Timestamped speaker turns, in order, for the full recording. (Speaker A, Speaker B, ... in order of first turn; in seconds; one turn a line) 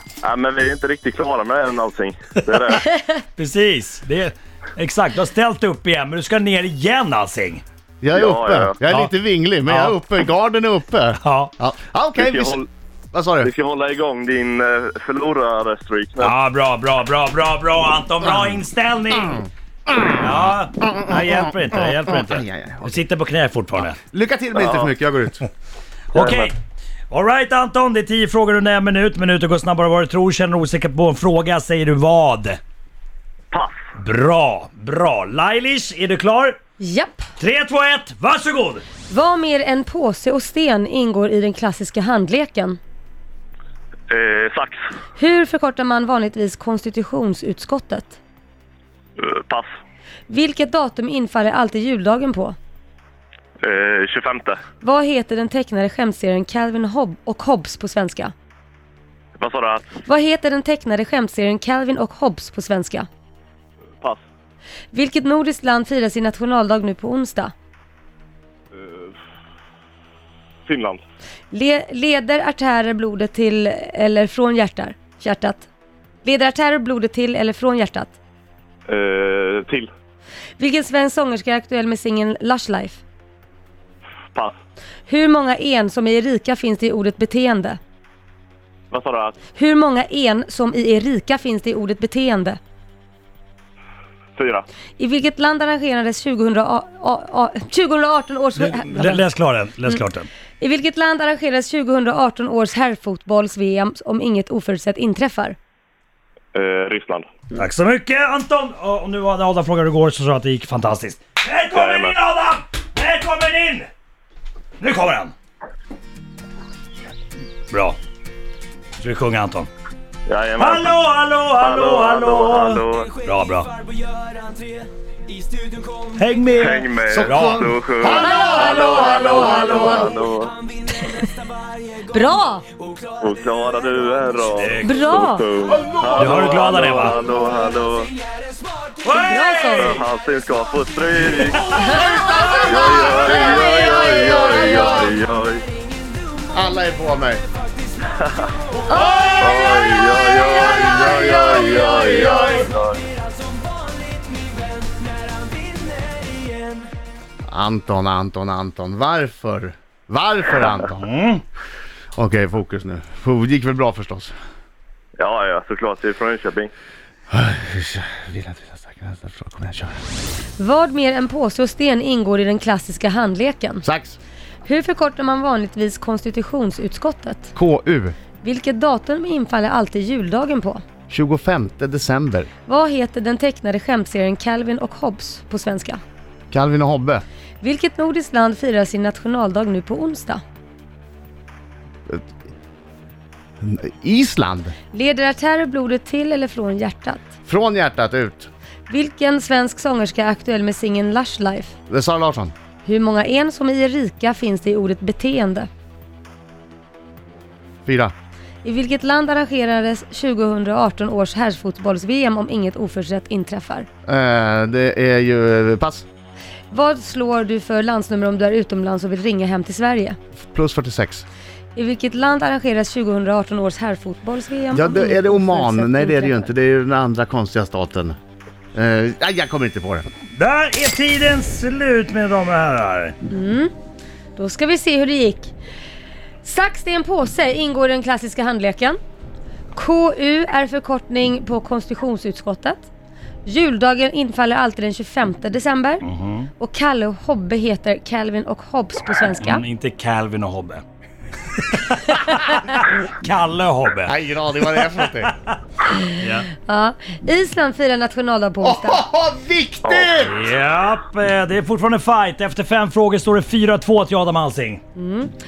Speaker A: 0.2-2.9
Speaker B: 2.9-3.2
Speaker C: 3.4-7.6
Speaker D: 8.0-12.6
Speaker A: 8.1-8.8
Speaker C: 9.7-10.0
Speaker C: 11.2-11.5
Speaker A: 12.2-12.7
Speaker D: 13.1-13.5
Speaker A: 13.4-16.3
Speaker C: 16.2-19.5
Speaker D: 18.2-18.6
Speaker D: 19.9-20.2
Speaker C: 20.1-24.0
Speaker D: 20.9-22.9
Speaker D: 24.0-25.5
Speaker A: 24.6-24.9
Speaker C: 26.1-26.6
Speaker A: 26.1-26.5
Speaker C: 27.1-32.6
Speaker A: 33.5-33.8
Speaker C: 34.0-36.6
Speaker B: 36.8-37.3
Speaker C: 37.4-38.9
Speaker B: 39.1-42.8
Speaker A: 44.1-44.8
Speaker B: 45.2-48.2
Speaker A: 49.2-49.7
Speaker B: 50.3-52.6
Speaker A: 53.6-54.6
Speaker B: 54.8-58.3
Speaker A: 59.4-59.9
Speaker B: 60.0-63.1
Speaker B: 64.9-67.5
Speaker A: 68.7-69.1
Speaker A: 70.7-71.0
Speaker B: 71.5-75.7
Speaker B: 76.2-78.2
Speaker A: 78.9-79.9
Speaker B: 80.6-83.0
Speaker B: 85.1-87.8
Speaker A: 88.9-89.4
Speaker B: 89.5-92.6
Speaker A: 94.4-94.7
Speaker B: 95.0-99.2
Speaker C: 98.6-100.3
Speaker B: 100.6-105.6
Speaker A: 106.5-107.3
Speaker C: 107.5-113.9
Speaker A: 111.7-112.2
Speaker C: 114.8-115.3
Speaker C: 117.7-118.0
Speaker C: 119.0-119.7
Speaker A: 120.3-121.0
Speaker C: 120.6-123.8
Speaker A: 121.5-123.1
Speaker C: 126.1-127.7
Speaker A: 126.6-130.6
Speaker D: 127.1-130.0
Speaker B: 128.2-130.2
Speaker B: 132.0-132.7
Speaker A: 133.2-138.1
Speaker C: 134.5-135.2
Speaker B: 134.8-135.5
Speaker D: 135.7-136.8
Speaker C: 136.2-137.2
Speaker C: 139.0-140.0
Speaker B: 139.1-140.0
Speaker A: 139.8-141.7
Speaker B: 141.7-145.1
Speaker D: 141.9-145.0
Speaker A: 142.7-145.7
Speaker D: 146.5-147.4
Speaker A: 148.2-148.5
Speaker B: 148.9-149.7
Speaker A: 149.4-153.1
Speaker D: 150.9-152.6
Speaker D: 157.5-161.0
Speaker C: 160.9-161.4
Speaker D: 162.2-164.3
Speaker A: 165.2-166.7
Speaker D: 167.3-170.0
Speaker B: 170.6-173.8
Speaker D: 173.8-174.2
Speaker B: 174.7-177.5
Speaker D: 177.6-178.2
Speaker B: 178.4-180.8
Speaker D: 181.1-182.5
Speaker B: 182.7-186.0
Speaker D: 186.5-187.2
Speaker B: 187.6-190.4
Speaker D: 193.6-194.8
Speaker B: 194.9-197.3
Speaker D: 197.5-198.5
Speaker B: 198.9-201.7
Speaker D: 201.9-202.5
Speaker B: 202.8-205.7
Speaker D: 207.9-208.1
Speaker B: 208.6-213.9
Speaker D: 214.1-216.1
Speaker B: 216.7-220.2
Speaker D: 220.4-221.2
Speaker B: 221.8-226.5
Speaker D: 224.7-228.2
Speaker D: 228.8-230.1
Speaker C: 230.3-233.2
Speaker B: 233.3-233.7
Speaker B: 234.4-235.5
Speaker B: 236.4-239.0
Speaker B: 239.7-242.9
Speaker B: 243.4-246.1
Speaker C: 246.0-246.5
Speaker B: 246.6-249.6
Speaker C: 249.4-250.8
Speaker C: 251.5-255.6
Speaker D: 254.1-255.3
Speaker B: 255.9-259.0
Speaker C: 256.2-256.5
Speaker D: 258.6-260.5
Speaker A: 259.9-260.2
Speaker C: 260.2-264.8
Speaker B: 265.0-265.3